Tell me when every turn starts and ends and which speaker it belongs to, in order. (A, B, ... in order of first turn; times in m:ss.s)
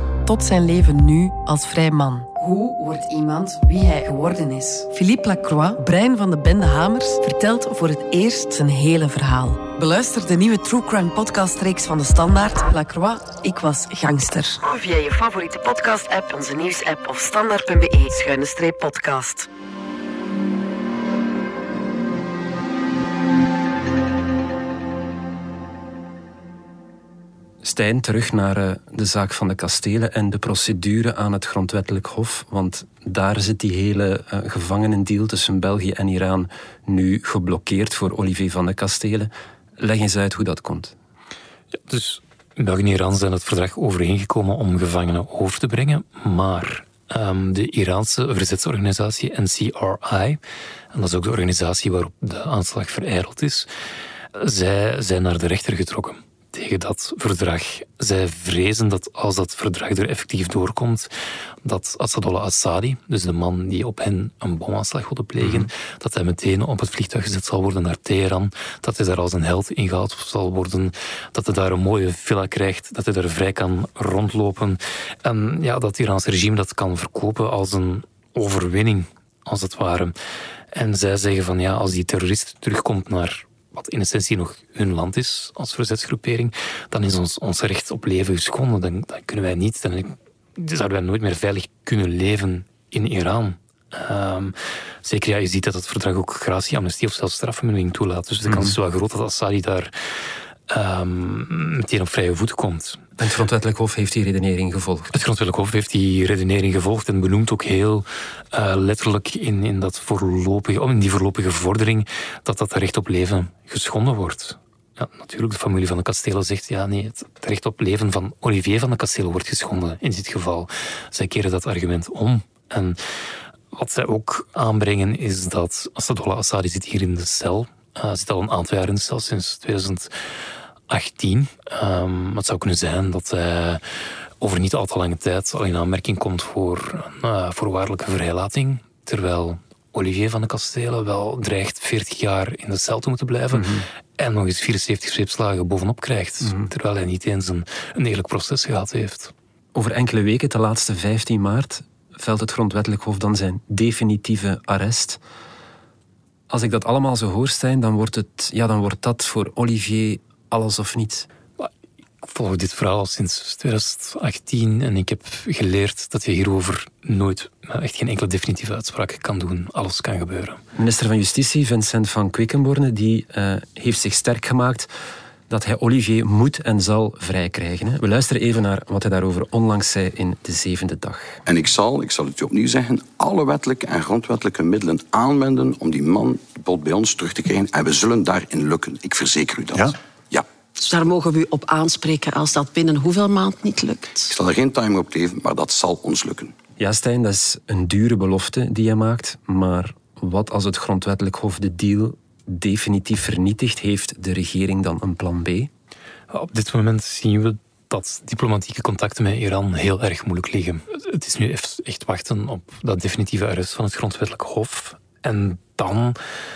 0:00.2-0:19.5 A
0:27.6-0:40.9 B
0:41.8-0:50.4 C
0:50.9-0:53.7 C
0:54.3-1:01.1 C
1:01.6-1:20.1 C
1:05.4-1:05.7 B
1:20.7-1:39.9 C
1:38.4-1:38.8 B
1:40.7-1:43.0 C
1:43.2-1:45.1 B
1:45.1-2:03.0 C
2:03.7-2:10.1 C
2:10.9-2:13.8 C
2:14.4-2:29.3 C
2:23.5-2:23.8 B
2:26.4-2:26.7 B
2:29.7-2:35.2 B
2:36.5-2:41.3 B
2:42.2-2:50.6 C
2:50.8-2:54.9 B
2:55.5-3:01.4 B
3:01.5-3:10.4 D
3:10.8-3:14.3 E
3:14.3-3:16.5 D
3:16.8-3:25.7 B
3:26.3-3:36.2 C